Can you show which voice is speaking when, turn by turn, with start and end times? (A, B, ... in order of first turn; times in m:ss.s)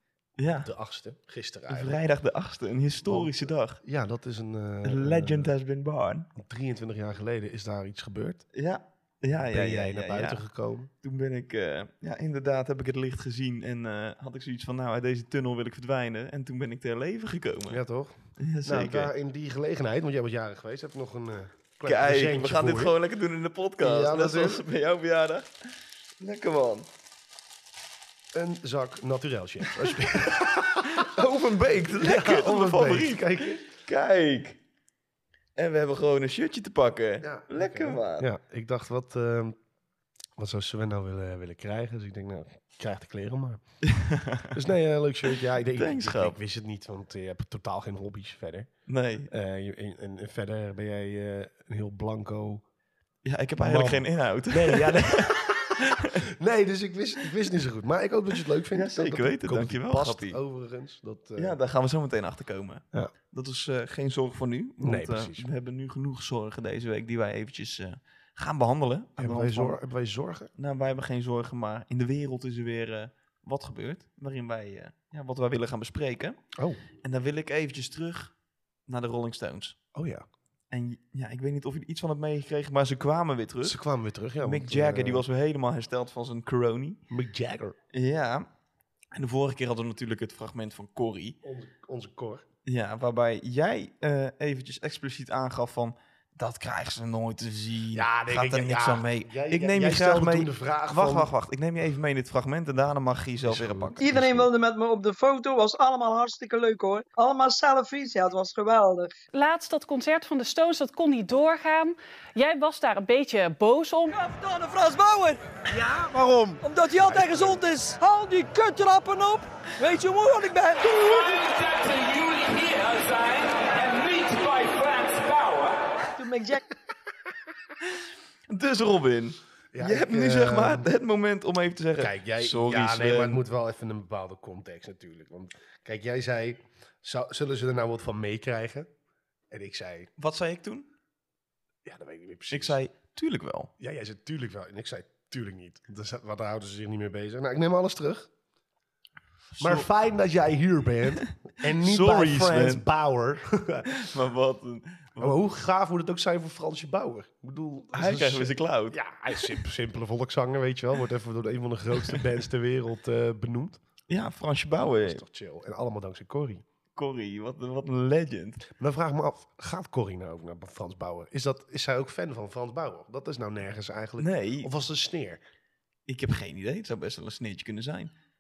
0:00.4-0:00.7 A
0:00.6-0:02.0 B
0:01.7-0:03.8 A
0:03.0-0:05.5 B
0:04.8-0:06.3 A
0:06.4-0:08.4 B
0:08.5-0:10.4 A
0:09.5-0:10.9 B
0:11.0-0:17.8 A
0:17.7-0:22.9 B
0:18.4-0:19.1 A
0:21.8-0:25.5 A
0:23.8-0:24.7 B
0:26.2-0:26.9 A
0:28.3-0:31.2 B
0:30.4-0:34.6 A
0:31.8-0:33.6 B
0:35.6-0:38.3 A
0:37.2-0:39.6 B
0:40.4-0:43.6 B
0:43.8-0:44.5 A
0:44.5-0:48.7 B
0:45.8-0:46.4 A
0:48.9-0:49.3 A
0:49.3-0:52.6 B
0:53.2-0:56.2 A
0:53.6-1:01.6 B
0:58.7-1:00.4 A
1:01.4-1:09.8 A
1:04.8-1:05.5 B
1:09.2-1:10.5 B
1:10.6-1:16.4 A
1:17.0-1:18.3 A
1:18.9-1:19.8 A
1:20.0-1:20.2 B
1:20.7-1:23.8 A
1:23.6-1:25.3 B
1:24.4-1:27.0 A
1:27.1-1:27.8 B
1:27.9-1:28.5 A
1:29.1-1:31.4 A
1:31.4-1:32.4 B
1:32.6-1:44.1 A
1:37.9-1:41.3 B
1:43.4-1:44.5 B
1:44.0-1:49.1 C
1:49.3-1:54.2 D
1:54.1-1:56.0 C
1:56.0-1:57.6 B
1:56.6-2:06.6 C
2:08.5-2:13.4 A
2:09.7-2:10.9 B
2:12.0-2:18.9 B
2:19.5-2:20.1 B
2:20.2-2:20.9 A
2:21.8-2:22.8 B
2:22.5-2:23.7 A
2:23.8-2:28.3 B
2:29.5-2:29.9 A
2:29.6-2:34.1 B
2:31.7-2:32.8 A
2:33.9-2:35.4 A
2:35.2-2:43.8 B
2:37.9-2:39.6 A
2:44.1-2:45.2 A
2:44.8-2:46.6 B
2:47.0-2:48.7 A
2:48.7-2:55.4 B
2:54.2-2:54.7 A
2:56.1-2:58.1 A